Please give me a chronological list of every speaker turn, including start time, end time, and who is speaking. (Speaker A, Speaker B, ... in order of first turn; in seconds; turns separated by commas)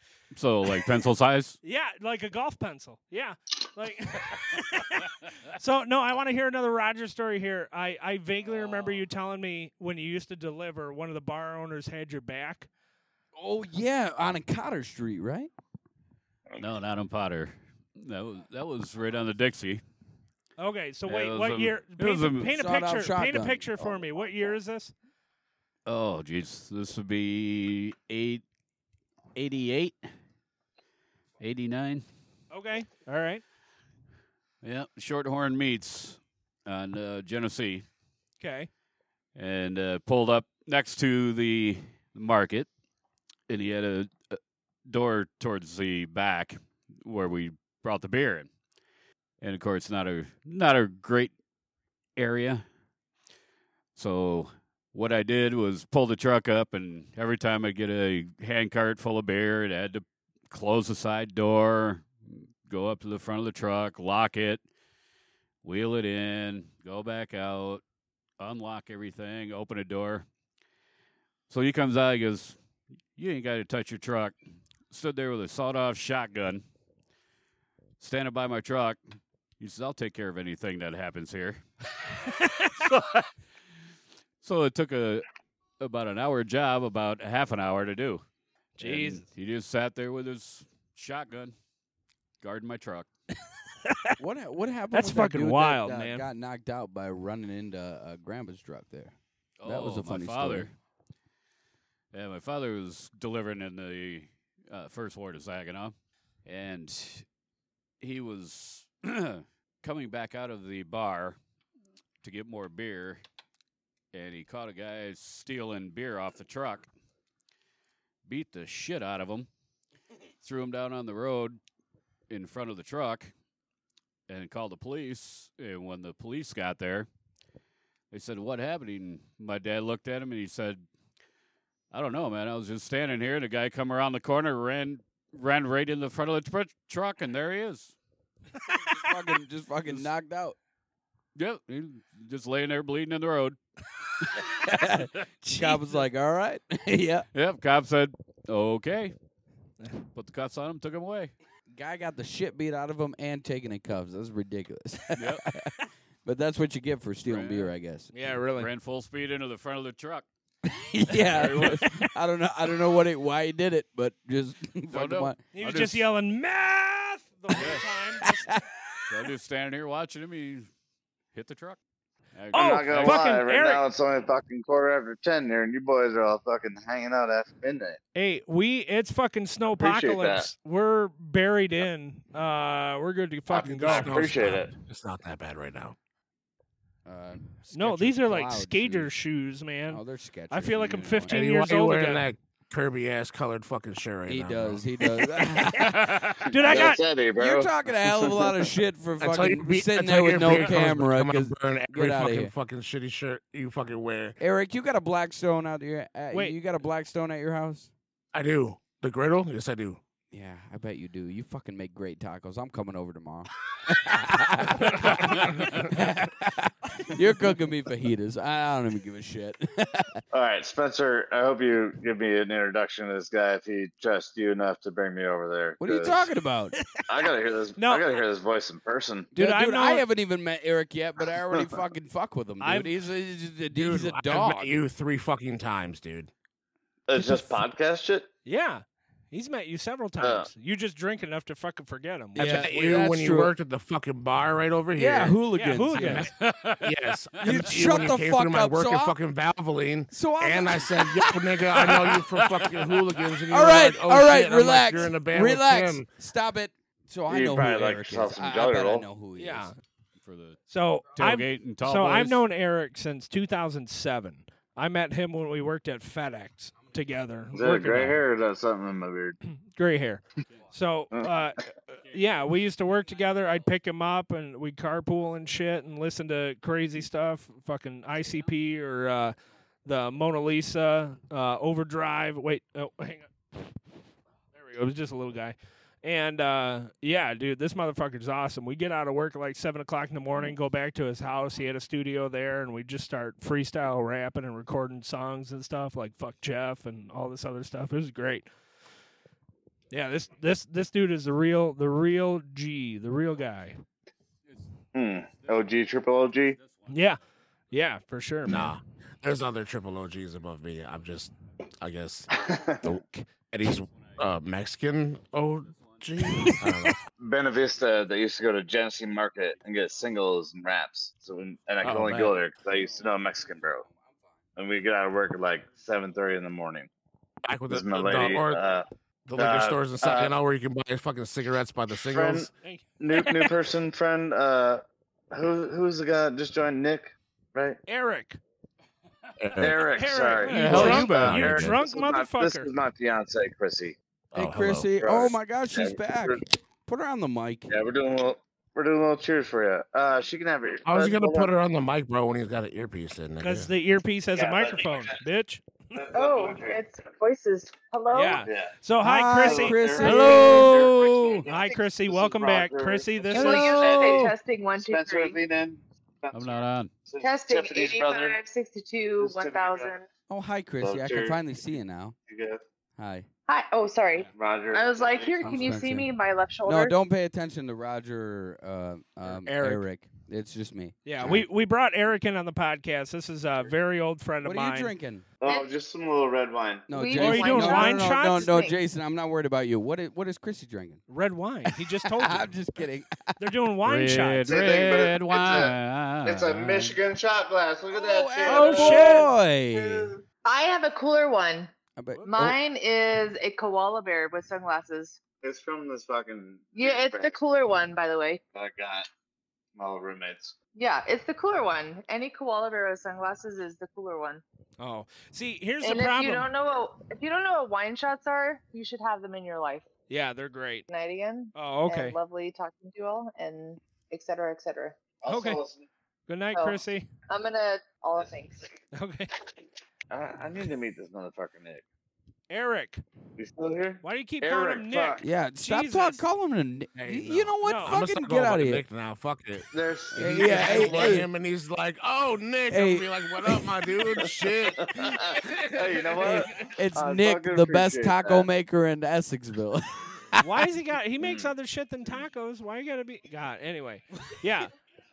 Speaker A: 0.3-1.6, Speaker B: 1.6-12.7, Speaker C: 13.3-15.5, Speaker A: 16.6-19.8, Speaker B: 20.6-24.9, Speaker A: 21.1-22.5, Speaker C: 22.4-23.7, Speaker A: 25.9-28.4, Speaker A: 29.3-30.0, Speaker A: 31.4-32.0, Speaker B: 32.5-33.4, Speaker A: 34.6-37.8, Speaker B: 38.4-38.7, Speaker A: 39.4-42.7, Speaker A: 43.5-48.5, Speaker A: 49.4-51.3, Speaker A: 52.1-52.6, Speaker A: 53.9-64.6, Speaker A: 65.6-67.8, Speaker A: 68.4-70.2, Speaker A: 71.5-72.6, Speaker A: 73.2-74.3, Speaker A: 74.9-76.6, Speaker A: 78.0-79.0, Speaker A: 79.6-81.6, Speaker B: 82.3-82.6, Speaker A: 82.7-83.3, Speaker A: 84.4-85.2, Speaker A: 85.8-88.2, Speaker B: 88.8-89.2, Speaker A: 88.8-91.5, Speaker A: 92.4-93.1, Speaker B: 93.8-94.1, Speaker C: 94.2-100.7, Speaker B: 94.9-96.3, Speaker A: 99.6-100.7, Speaker A: 102.1-105.9, Speaker A: 106.4-107.2, Speaker A: 108.0-111.4, Speaker A: 112.2-113.2, Speaker A: 114.1-116.9, Speaker A: 118.2-119.5, Speaker A: 120.4-121.6, Speaker A: 122.3-123.3, Speaker A: 124.3-127.1, Speaker A: 128.1-130.8, Speaker A: 131.9-137.9, Speaker C: 138.9-140.6, Speaker A: 141.3-143.6, Speaker C: 144.6-147.3, Speaker B: 145.4-145.8, Speaker A: 147.3-149.1, Speaker A: 150.1-151.3, Speaker C: 151.7-155.7, Speaker A: 155.2-155.4, Speaker C: 156.2-158.1, Speaker A: 157.2-157.7, Speaker B: 158.1-158.7, Speaker A: 158.5-160.3, Speaker C: 160.7-165.4, Speaker A: 161.2-161.9, Speaker A: 164.9-166.1, Speaker B: 165.5-168.6, Speaker A: 167.6-167.8, Speaker C: 168.2-168.7, Speaker A: 169.1-170.7, Speaker A: 171.3-171.8, Speaker A: 172.3-173.3, Speaker B: 172.5-173.8, Speaker D: 172.5-178.0, Speaker B: 178.1-184.3, Speaker D: 179.8-180.5, Speaker D: 183.5-184.7, Speaker E: 183.8-185.9, Speaker C: 187.1-189.1, Speaker B: 187.7-192.2, Speaker C: 189.9-191.3, Speaker E: 191.3-194.8, Speaker C: 194.3-202.5, Speaker B: 195.8-197.0, Speaker D: 196.5-198.7, Speaker E: 199.2-204.4, Speaker B: 200.5-200.7, Speaker C: 204.4-207.9, Speaker B: 206.3-206.6, Speaker E: 208.3-210.0, Speaker C: 210.3-220.2, Speaker A: 215.0-215.6, Speaker D: 220.3-226.3, Speaker C: 225.8-226.8, Speaker D: 227.1-229.3, Speaker B: 227.8-228.1, Speaker C: 229.3-234.8, Speaker B: 229.3-230.0, Speaker B: 232.6-232.9, Speaker E: 233.7-236.3, Speaker D: 237.1-238.3, Speaker C: 237.1-237.6, Speaker B: 238.4-242.7, Speaker D: 240.2-240.5, Speaker C: 242.3-243.5, Speaker E: 242.4-245.4, Speaker C: 244.9-246.3, Speaker B: 245.5-246.3, Speaker A: 246.0-248.1, Speaker E: 246.8-256.1, Speaker C: 247.4-249.2, Speaker C: 250.1-251.1, Speaker A: 251.8-253.1, Speaker C: 253.5-259.7, Speaker D: 257.3-259.0, Speaker B: 259.4-259.8, Speaker A: 260.2-260.6, Speaker B: 260.7-268.2, Speaker A: 261.1-262.4, Speaker D: 267.5-269.4, Speaker B: 269.5-283.3, Speaker B: 284.5-298.5, Speaker B: 299.9-303.8, Speaker D: 304.9-306.6, Speaker B: 306.9-307.2, Speaker B: 307.7-308.7, Speaker E: 308.4-317.0, Speaker D: 312.3-312.8, Speaker D: 317.2-323.8, Speaker E: 321.8-322.4, Speaker D: 324.6-326.9, Speaker E: 327.4-328.6, Speaker D: 327.7-328.9, Speaker E: 329.3-332.5, Speaker D: 329.4-330.3, Speaker D: 332.1-337.8, Speaker B: 332.6-333.5, Speaker B: 337.9-338.4, Speaker E: 339.4-339.9, Speaker D: 339.6-343.9, Speaker B: 339.9-342.7, Speaker A: 340.4-341.5, Speaker E: 340.6-341.8, Speaker E: 344.3-344.9, Speaker C: 344.3-347.8, Speaker D: 345.0-346.4, Speaker D: 347.7-351.5, Speaker E: 350.9-353.7, Speaker B: 353.4-355.6, Speaker D: 354.3-355.1, Speaker D: 355.9-356.8, Speaker F: 356.1-358.4, Speaker B: 358.1-360.9, Speaker D: 358.4-358.7, Speaker C: 359.0-360.7, Speaker D: 359.4-368.4, Speaker A: 360.0-361.4, Speaker B: 361.4-364.3, Speaker F: 363.3-365.4, Speaker A: 366.3-366.9, Speaker F: 367.2-370.1, Speaker D: 369.2-369.9, Speaker C: 370.3-372.1, Speaker D: 370.8-371.4, Speaker D: 372.3-372.6, Speaker C: 373.0-373.3, Speaker F: 373.5-377.0, Speaker D: 374.3-375.6, Speaker C: 375.4-376.1, Speaker C: 376.6-381.4, Speaker B: 379.2-379.8, Speaker B: 381.0-384.9, Speaker C: 384.4-385.2, Speaker D: 385.4-386.9, Speaker C: 386.9-391.0, Speaker F: 386.9-388.8, Speaker B: 387.1-388.5, Speaker B: 391.1-392.5, Speaker C: 392.0-393.4, Speaker B: 393.4-394.5, Speaker A: 393.8-397.0, Speaker D: 394.5-400.2, Speaker C: 397.9-400.1, Speaker B: 398.4-399.3, Speaker F: 400.4-401.7, Speaker C: 402.0-402.6, Speaker F: 402.2-405.2, Speaker D: 405.4-407.3, Speaker F: 406.8-408.4, Speaker D: 408.5-409.1, Speaker D: 409.8-410.6, Speaker F: 410.7-414.4, Speaker B: 414.8-416.4, Speaker F: 415.8-419.9, Speaker B: 420.1-420.9, Speaker F: 420.9-425.0, Speaker B: 421.5-422.1, Speaker D: 425.2-425.9, Speaker B: 425.2-425.6, Speaker B: 426.3-427.1, Speaker F: 426.5-428.8, Speaker B: 428.9-429.3, Speaker D: 430.1-431.8, Speaker B: 432.5-433.0, Speaker D: 433.4-435.2, Speaker B: 434.0-436.2, Speaker C: 435.2-438.8, Speaker E: 436.9-446.4, Speaker B: 437.6-438.0, Speaker D: 439.7-441.3, Speaker C: 440.1-441.3, Speaker C: 442.7-443.7, Speaker D: 444.8-448.5, Speaker C: 446.2-450.4, Speaker B: 450.4-454.7, Speaker D: 451.2-451.5